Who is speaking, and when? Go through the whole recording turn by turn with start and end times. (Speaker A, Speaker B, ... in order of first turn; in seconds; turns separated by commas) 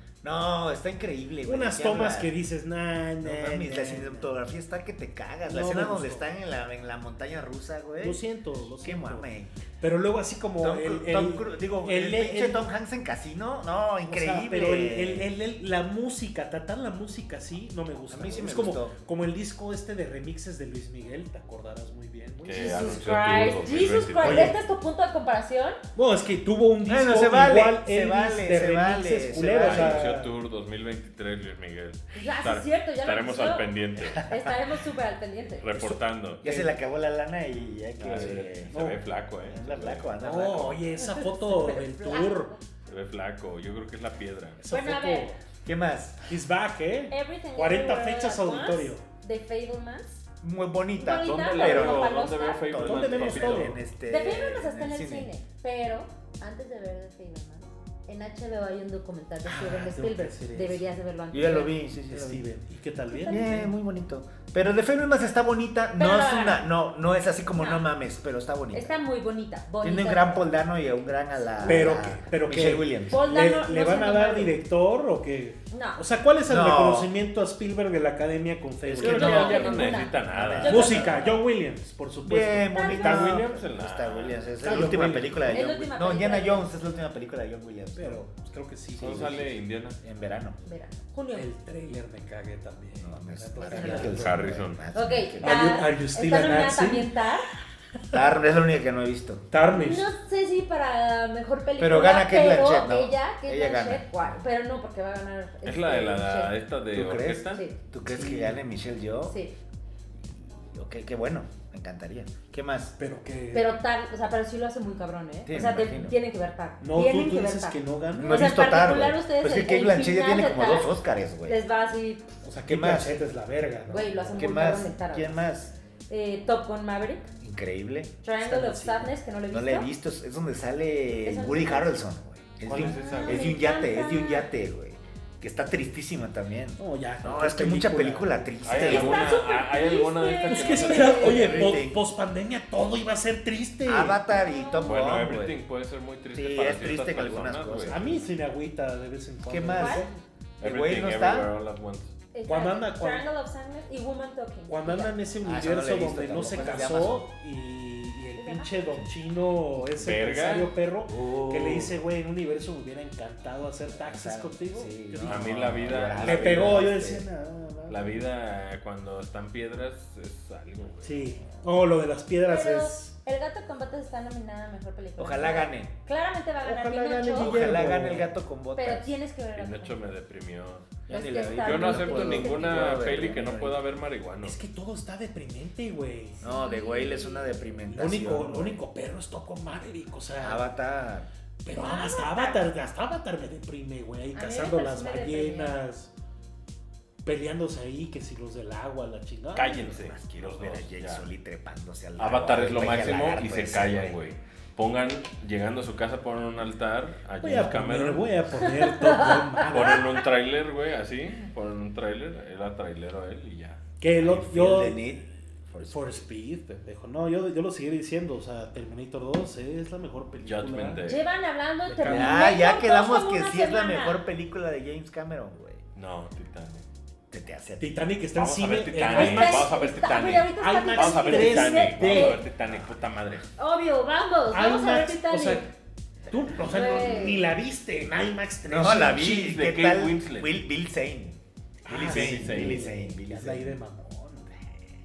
Speaker A: 0.2-2.3, Speaker B: 1.4-4.3, Speaker A: 3.2-8.2, Speaker B: 5.4-6.3, Speaker B: 8.0-9.3, Speaker A: 8.8-9.6, Speaker B: 9.8-12.7, Speaker A: 10.6-15.3, Speaker B: 14.0-22.9, Speaker A: 18.1-18.9, Speaker C: 22.4-24.5, Speaker D: 22.5-25.8, Speaker B: 24.2-24.6, Speaker B: 25.9-30.3, Speaker A: 26.9-30.1, Speaker C: 29.6-34.2, Speaker D: 32.1-35.7, Speaker C: 35.6-36.5, Speaker A: 36.4-38.7, Speaker C: 38.0-40.1, Speaker B: 38.1-39.0, Speaker A: 39.5-40.8, Speaker B: 40.2-42.5, Speaker D: 41.0-42.6, Speaker C: 42.9-44.6, Speaker B: 44.6-45.4, Speaker D: 44.7-45.3, Speaker A: 45.6-46.3, Speaker B: 46.3-49.0, Speaker D: 47.1-50.2, Speaker A: 50.4-55.3, Speaker D: 51.0-52.6, Speaker C: 51.2-53.8, Speaker B: 52.8-53.8, Speaker D: 54.1-61.8, Speaker B: 59.4-61.0, Speaker A: 61.3-62.4, Speaker B: 61.9-63.7, Speaker D: 63.1-63.5, Speaker A: 63.2-68.9, Speaker D: 66.0-66.6, Speaker D: 67.5-67.8, Speaker D: 68.7-70.4, Speaker A: 69.8-73.2, Speaker D: 71.3-72.1, Speaker B: 71.6-79.4, Speaker D: 73.1-74.6, Speaker D: 75.7-76.0, Speaker A: 76.5-77.1, Speaker A: 78.8-81.3, Speaker C: 79.0-80.9, Speaker D: 79.0-81.3, Speaker B: 80.6-83.3, Speaker A: 82.2-88.3, Speaker D: 82.7-83.3, Speaker C: 82.8-84.5, Speaker B: 84.6-85.7, Speaker D: 85.5-86.7, Speaker B: 88.0-89.5, Speaker C: 89.0-90.0, Speaker A: 89.0-89.4, Speaker A: 90.0-90.6, Speaker D: 90.6-91.5, Speaker B: 91.3-94.6, Speaker A: 93.0-95.7, Speaker D: 93.7-94.1, Speaker C: 93.9-94.8, Speaker D: 94.9-97.5, Speaker B: 95.4-97.1, Speaker A: 98.1-99.5, Speaker B: 99.5-100.1, Speaker D: 99.7-106.5, Speaker A: 101.8-104.3, Speaker C: 105.6-107.6, Speaker A: 106.9-109.3, Speaker B: 108.0-108.6, Speaker D: 109.2-109.5, Speaker A: 110.6-112.9, Speaker B: 113.0-113.7, Speaker D: 113.5-122.4, Speaker A: 115.5-116.1, Speaker B: 116.8-118.5, Speaker A: 118.1-121.6, Speaker B: 122.4-124.7, Speaker A: 122.7-123.1, Speaker D: 123.9-125.5, Speaker A: 124.3-125.7, Speaker D: 126.1-127.2, Speaker A: 127.4-128.1, Speaker D: 128.2-129.9, Speaker B: 128.4-129.1, Speaker A: 129.5-139.3, Speaker D: 131.2-131.9, Speaker C: 132.7-133.6, Speaker D: 132.7-134.5, Speaker B: 136.8-138.4, Speaker C: 138.6-141.6, Speaker D: 138.7-141.8, Speaker B: 140.5-144.2, Speaker A: 141.2-142.0, Speaker A: 143.8-145.6, Speaker D: 144.3-145.1, Speaker C: 144.8-148.0, Speaker A: 146.3-148.2, Speaker B: 147.9-150.2, Speaker A: 149.5-150.1, Speaker D: 149.7-150.1, Speaker C: 150.6-152.1, Speaker A: 150.6-151.5, Speaker D: 152.3-155.1, Speaker B: 152.4-153.2, Speaker B: 154.7-168.2, Speaker A: 155.4-157.3, Speaker D: 156.3-156.9, Speaker D: 158.3-159.0, Speaker C: 159.9-160.7, Speaker A: 161.1-161.9, Speaker A: 164.0-167.2, Speaker C: 165.2-166.9, Speaker C: 167.9-171.4, Speaker B: 171.0-173.1, Speaker D: 172.4-177.8, Speaker A: 175.2-175.9, Speaker B: 176.6-178.3, Speaker A: 177.3-179.2, Speaker D: 178.8-180.1, Speaker C: 179.5-184.6, Speaker A: 181.1-183.8, Speaker D: 181.1-183.1, Speaker B: 184.4-186.4, Speaker D: 186.4-187.6, Speaker A: 186.4-188.8, Speaker B: 187.9-190.7, Speaker A: 190.4-191.3, Speaker B: 191.6-196.1, Speaker D: 191.7-192.7, Speaker D: 194.3-195.8, Speaker B: 197.2-200.0, Speaker C: 199.5-201.3, Speaker A: 199.8-204.2, Speaker C: 202.2-208.5, Speaker B: 207.4-210.1, Speaker D: 208.6-210.1, Speaker C: 209.7-213.8, Speaker B: 214.0-215.1, Speaker A: 214.2-216.3, Speaker B: 215.8-221.0, Speaker C: 220.4-221.2, Speaker D: 221.1-224.2, Speaker B: 221.8-222.4, Speaker A: 222.0-225.8, Speaker C: 225.9-226.8, Speaker A: 227.3-228.1, Speaker B: 227.8-229.8, Speaker C: 228.3-233.5, Speaker D: 229.1-232.4, Speaker B: 230.6-232.4, Speaker A: 232.6-233.1, Speaker D: 233.6-235.7, Speaker B: 234.5-235.7, Speaker B: 236.3-239.5, Speaker A: 236.3-236.9, Speaker D: 236.5-237.5, Speaker A: 238.7-243.8, Speaker C: 239.2-240.5, Speaker B: 241.8-244.5, Speaker C: 242.0-242.9